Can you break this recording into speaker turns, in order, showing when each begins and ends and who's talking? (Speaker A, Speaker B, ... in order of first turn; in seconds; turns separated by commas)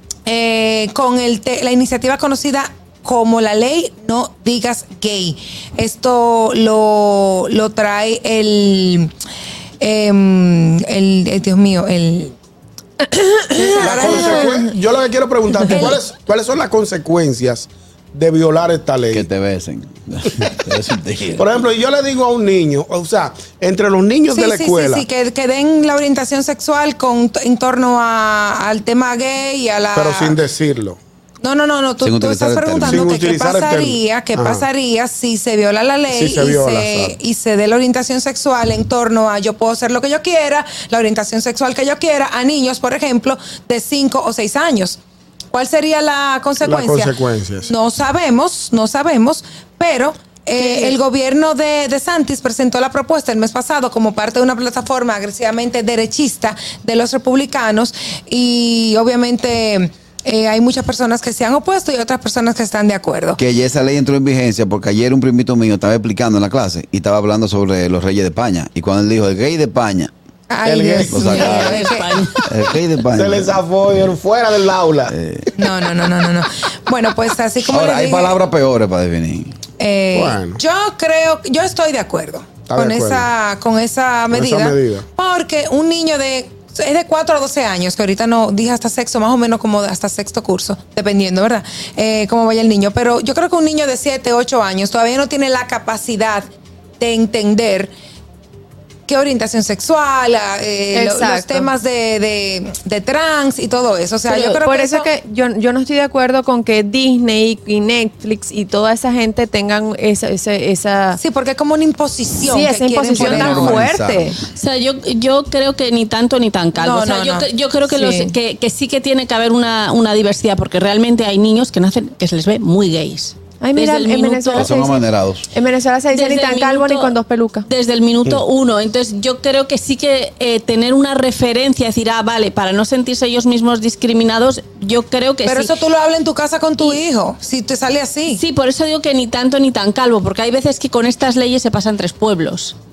Speaker A: 0.2-9.1, Speaker A: 9.8-12.3, Speaker B: 13.1-14.4, Speaker A: 13.6-14.7, Speaker C: 13.8-19.2, Speaker A: 15.6-16.0, Speaker D: 19.1-21.6, Speaker C: 21.4-25.1, Speaker A: 24.3-30.4, Speaker C: 29.9-31.0, Speaker A: 31.4-45.0, Speaker D: 32.0-33.1, Speaker C: 32.9-34.7, Speaker C: 36.1-37.2, Speaker A: 45.5-63.4, Speaker C: 46.6-47.7, Speaker E: 50.6-50.9, Speaker D: 63.4-70.1, Speaker A: 70.5-72.2, Speaker C: 70.6-71.8, Speaker D: 71.1-71.8, Speaker E: 71.3-72.4, Speaker D: 72.5-73.5, Speaker C: 73.2-75.1, Speaker D: 75.1-75.5, Speaker A: 75.5-78.4, Speaker D: 77.7-79.6, Speaker A: 79.8-96.5, Speaker C: 80.1-80.6, Speaker C: 82.7-83.3, Speaker C: 84.3-85.1, Speaker A: 97.0-97.9, Speaker A: 99.1-105.1, Speaker B: 100.9-101.7, Speaker B: 104.2-111.2, Speaker A: 111.2-113.9, Speaker B: 112.4-114.4, Speaker D: 113.1-114.3, Speaker E: 114.5-124.7, Speaker A: 116.7-117.5, Speaker B: 117.8-118.4, Speaker B: 123.6-125.0, Speaker D: 124.5-125.5, Speaker B: 125.5-127.7, Speaker E: 126.1-135.7, Speaker A: 135.4-138.4, Speaker E: 138.3-142.8